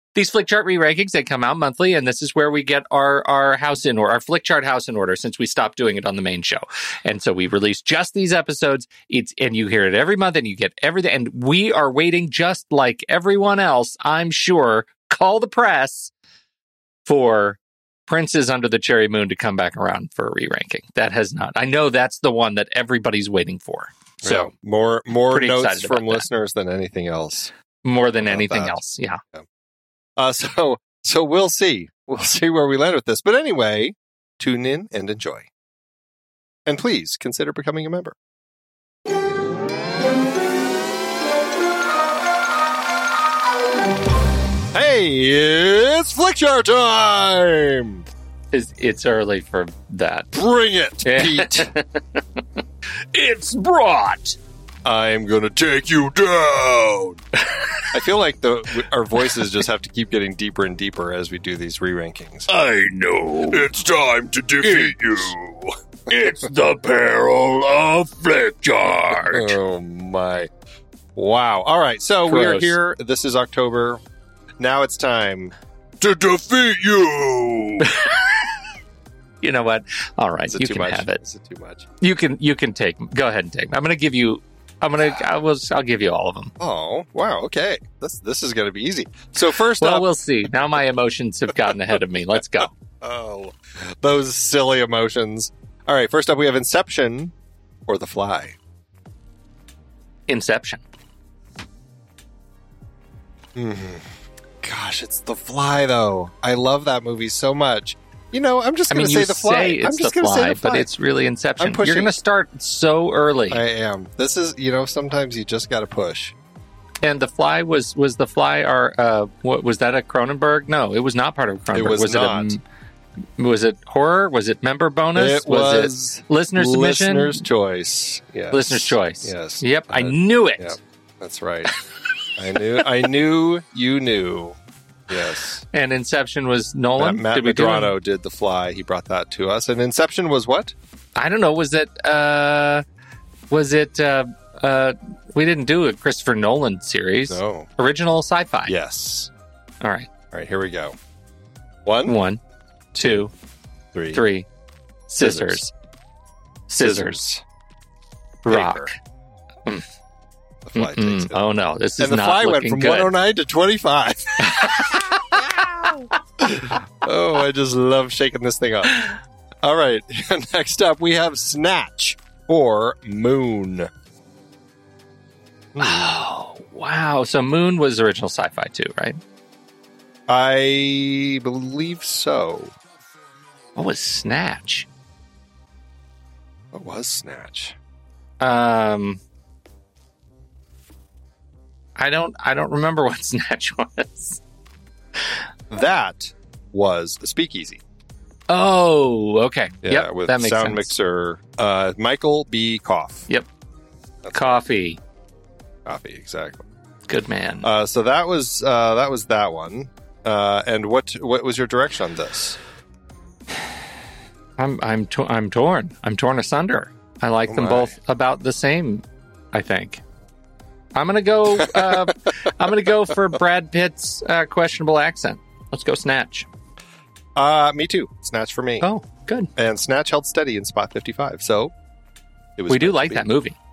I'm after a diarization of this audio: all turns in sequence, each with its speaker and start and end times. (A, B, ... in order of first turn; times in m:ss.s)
0:00.2-0:16.1 A
0:17.0-0:24.5 A
0:24.2-0:27.5 B
0:25.3-0:26.2 A
0:27.8-0:29.2 A
0:28.3-0:28.8 B
0:30.2-0:35.5 B
0:36.7-0:38.2 B
0:44.7-0:48.0 B
0:48.5-0:50.3 A
0:50.3-0:51.7 B
0:51.0-0:52.4 A
0:53.1-0:53.6 C
0:53.4-0:54.4 A
0:54.8-0:57.2 B
0:57.5-0:57.9 A
0:57.9-1:02.5 B
1:02.5-1:05.4 C
1:02.6-1:03.7 A
1:03.5-1:05.7 B
1:06.1-1:09.3 C
1:08.9-1:09.6 A
1:09.3-1:10.5 B
1:11.2-1:14.0 B
1:12.3-1:12.7 A
1:14.6-1:15.5 B
1:16.0-1:17.7 C
1:16.7-1:17.8 B
1:17.8-1:18.6 A
1:19.4-1:21.2 A
1:20.5-1:21.9 B
1:22.0-1:26.5 A
1:26.6-1:30.1 B
1:29.8-1:32.7 A
1:33.0-1:37.3 B
1:37.9-1:38.6 B
1:40.3-1:40.8 A
1:43.6-1:44.1 B
1:44.6-1:50.9 B
1:48.9-1:53.6 A
1:51.6-1:52.2 B
1:53.5-1:56.4 B
1:57.0-2:02.6 A
2:01.7-2:02.6 B
2:03.4-2:07.4 A
2:05.2-2:11.8 B
2:08.5-2:10.8 A
2:12.3-2:14.6 B
2:15.1-2:15.6 B
2:15.7-2:17.9 A
2:17.0-2:20.7 B
2:21.2-2:22.8 A
2:23.5-2:28.7 A
2:27.3-2:27.7 B
2:28.6-2:29.3 B
2:29.8-2:30.1 A
2:30.3-2:31.0 B
2:31.8-2:32.2 B
2:32.0-2:32.4 A
2:33.0-2:33.3 A
2:33.0-2:33.3 B
2:33.9-2:34.2 B
2:34.1-2:34.5 A
2:35.1-2:35.7 A
2:35.2-2:35.6 B
2:36.7-2:37.2 A
2:36.8-2:37.4 B
2:38.4-2:39.0 A
2:38.5-2:38.9 B
2:40.7-2:41.4 B
2:40.8-2:43.1 A
2:42.0-2:53.9 B
2:44.4-2:46.0 A
2:55.8-2:56.2 B
2:55.8-2:59.2 A
3:00.3-3:02.7 B
3:03.0-3:03.8 C
3:03.8-3:04.9 A
3:06.7-3:07.8 B
3:08.4-3:09.2 A
3:12.0-3:14.4 A
3:15.7-3:17.8 B
3:18.5-3:20.9 A
3:19.8-3:23.3 B
3:24.2-3:24.6 B
3:24.3-3:25.0 A
3:25.9-3:26.7 B
3:27.1-3:27.7 A
3:27.6-3:32.6 B
3:34.6-3:40.0 A
3:37.5-3:37.9 B
3:41.0-3:46.5 A
3:41.6-3:42.1 B
3:47.4-3:48.9 B
3:48.8-3:49.5 A
3:49.6-3:51.7 B
3:52.6-3:53.3 B
3:52.7-3:53.6 A